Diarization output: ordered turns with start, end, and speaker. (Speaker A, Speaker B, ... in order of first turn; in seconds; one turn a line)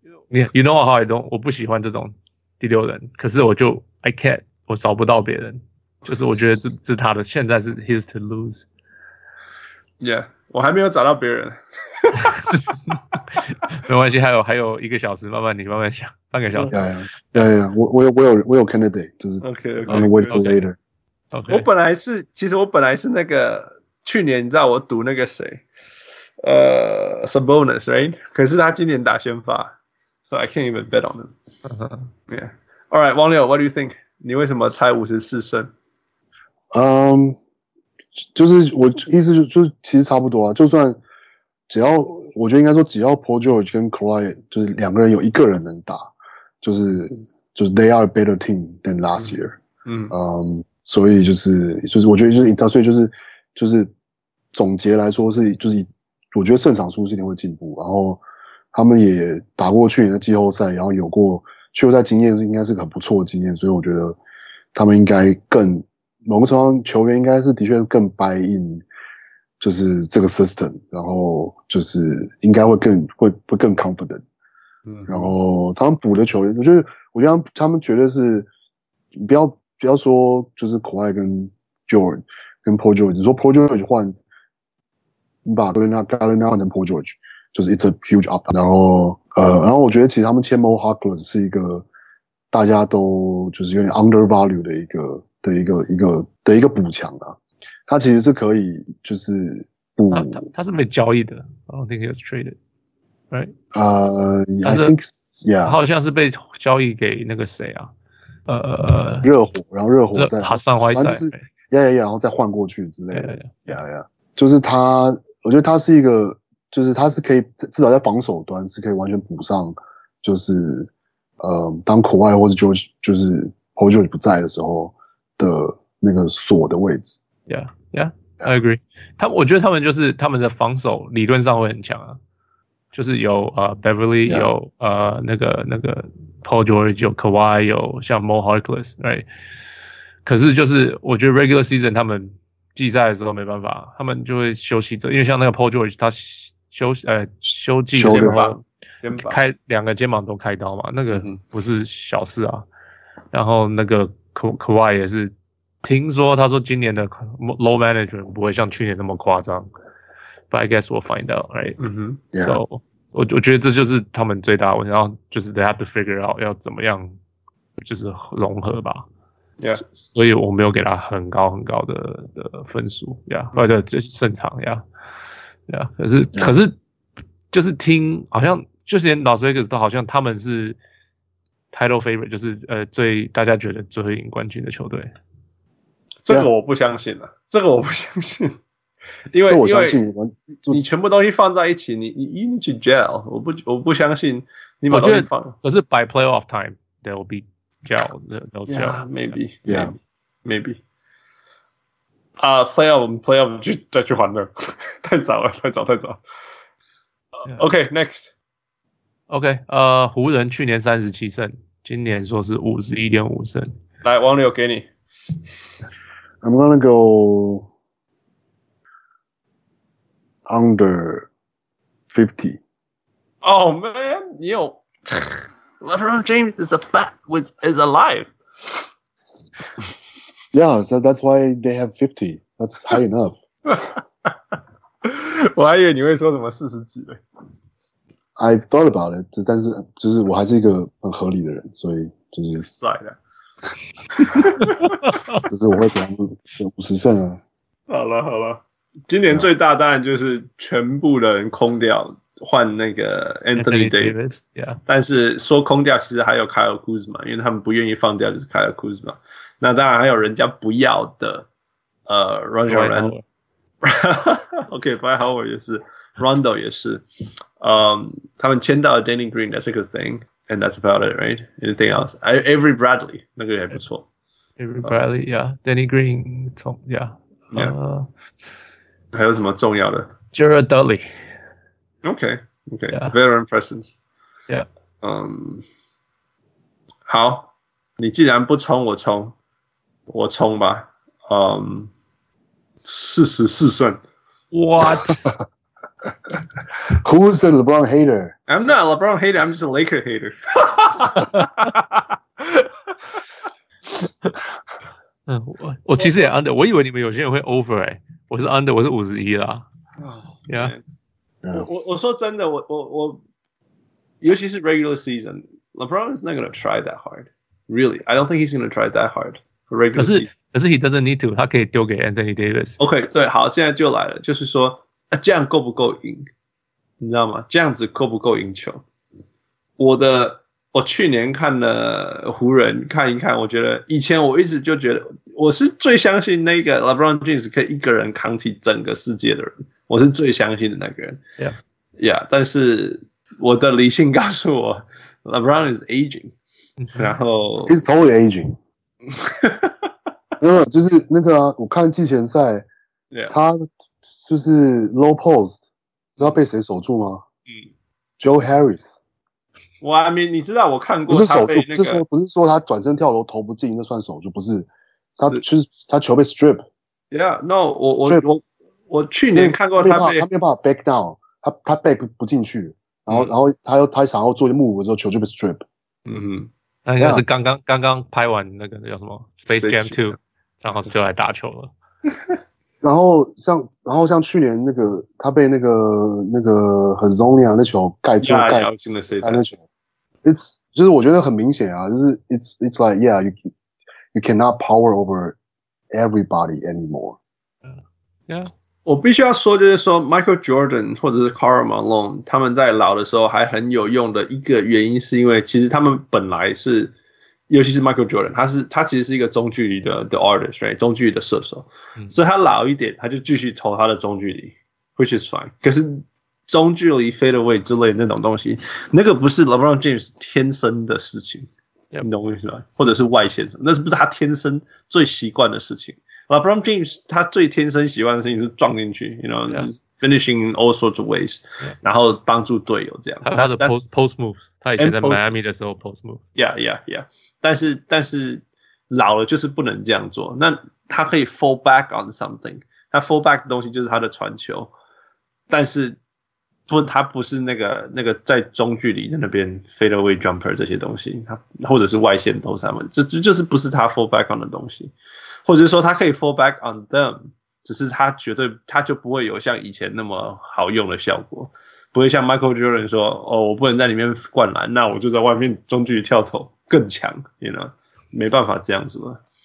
Speaker A: 0.3-8.7
Speaker B: 10.0-12.6
Speaker A: 12.5-16.8
Speaker C: 16.7-20.8
Speaker B: 19.4-20.4
Speaker A: 19.9-20.6
Speaker A: 21.3-21.6
Speaker B: 21.5-25.7
Speaker B: 26.4-29.7
Speaker B: 30.3-31.3
Speaker A: 31.7-32.1
Speaker B: 32.3-35.7
Speaker C: 36.7-37.4
Speaker C: 38.2-41.0
Speaker C: 41.7-49.6
Speaker B: 49.9-50.1
Speaker C: 50.1-53.9
Speaker C: 54.5-58.2
Speaker C: 58.7-64.2
Speaker C: 64.7-68.8
Speaker C: 69.6-74.2
Speaker B: 74.9-75.3
Speaker C: 75.1-78.5
Speaker C: 79.1-84.1
Speaker C: 85.5-91.8
Speaker C: 92.5-97.3
Speaker C: 97.9-100.5
Speaker A: 100.1-102.5
Speaker C: 103.7-105.8
Speaker A: 104.6-104.9
Speaker A: 105.6-107.9
Speaker A: 108.5-109.3
Speaker C: 109.2-127.2
Speaker A: 110.1-111.4
Speaker A: 113.1-113.5
Speaker A: 127.5-132.2
Speaker A: 132.9-139.2
Speaker A: 140.2-148.6
Speaker C: 147.9-148.4
Speaker B: 148.1-149.4
Speaker A: 149.1-152.6
Speaker B: 151.1-151.4
Speaker A: 153.3-155.3
Speaker A: 155.8-159.7
Speaker A: 160.5-161.8
Speaker B: 161.8-162.2
Speaker C: 162.3-162.6
Speaker A: 162.4-167.1
Speaker A: 167.8-169.0
Speaker A: 169.8-174.8
Speaker A: 175.7-176.7
Speaker A: 177.5-180.8
Speaker A: 181.7-185.1
Speaker B: 186.2-188.5
Speaker B: 189.3-190.0
Speaker C: 189.5-190.8
Speaker B: 190.7-195.6
Speaker A: 194.9-199.4
Speaker B: 198.7-199.9
Speaker C: 199.7-199.9
Speaker B: 200.4-200.8
Speaker B: 202.4-206.2
Speaker B: 207.5-208.3
Speaker A: 209.3-213.7
Speaker B: 214.0-214.9
Speaker C: 216.4-217.7
Speaker C: 220.4-221.3
Speaker C: 222.1-222.6
Speaker B: 223.4-228.3
Speaker C: 230.5-233.4
Speaker B: 233.7-234.3
Speaker B: 235.0-237.2
Speaker C: 238.4-242.6
Speaker B: 242.5-243.2
Speaker B: 244.1-244.9
Speaker A: 244.6-245.4
Speaker C: 245.5-247.4
Speaker B: 247.9-254.2
Speaker A: 253.5-254.8
Speaker B: 254.9-261.4
Speaker B: 262.1-263.1
Speaker A: 262.7-263.2
Speaker B: 263.8-267.0
Speaker B: 267.6-274.1
Speaker A: 274.6-278.1
Speaker B: 279.1-280.1
Speaker A: 280.3-281.1
Speaker B: 282.0-284.0
Speaker A: 282.9-283.1
Speaker B: 285.0-285.6
Speaker B: 287.1-289.3
Speaker B: 290.1-291.9
Speaker B: 292.8-294.0
Speaker A: 294.5-295.3
Speaker C: 296.9-298.4
Speaker B: 298.5-302.7
Speaker A: 305.3-309.6
Speaker B: 310.0-310.8
Speaker A: 310.5-310.7
Speaker B: 311.5-313.2
Speaker B: 314.2-320.3
Speaker A: 319.9-322.8
Speaker B: 322.8-326.3
Speaker B: 327.0-328.8
Speaker B: 329.8-341.2
Speaker B: 342.0-346.3
Speaker B: 346.9-347.8
Speaker C: 347.7-348.6
Speaker B: 349.1-349.9
Speaker C: 350.4-352.7
Speaker C: 353.3-355.7
Speaker C: 356.2-357.2
Speaker C: 358.2-359.0
Speaker B: 359.8-362.0
Speaker C: 361.1-366.6
Speaker B: 367.1-370.2
Speaker C: 369.3-375.6
Speaker B: 376.1-376.5
Speaker A: 376.9-381.7
Speaker B: 379.5-380.2
Speaker C: 382.8-388.7
Speaker B: 388.2-389.4
Speaker C: 389.2-389.6
Speaker C: 390.2-393.3
Speaker C: 394.1-395.4
Speaker C: 395.9-397.2
Speaker B: 398.9-406.9
Speaker B: 407.5-421.5
Speaker B: 422.0-433.7
Speaker A: 433.2-436.2
Speaker B: 434.8-435.2
Speaker B: 436.3-444.7
Speaker B: 445.5-446.0
Speaker B: 446.7-454.9
Speaker B: 455.4-469.2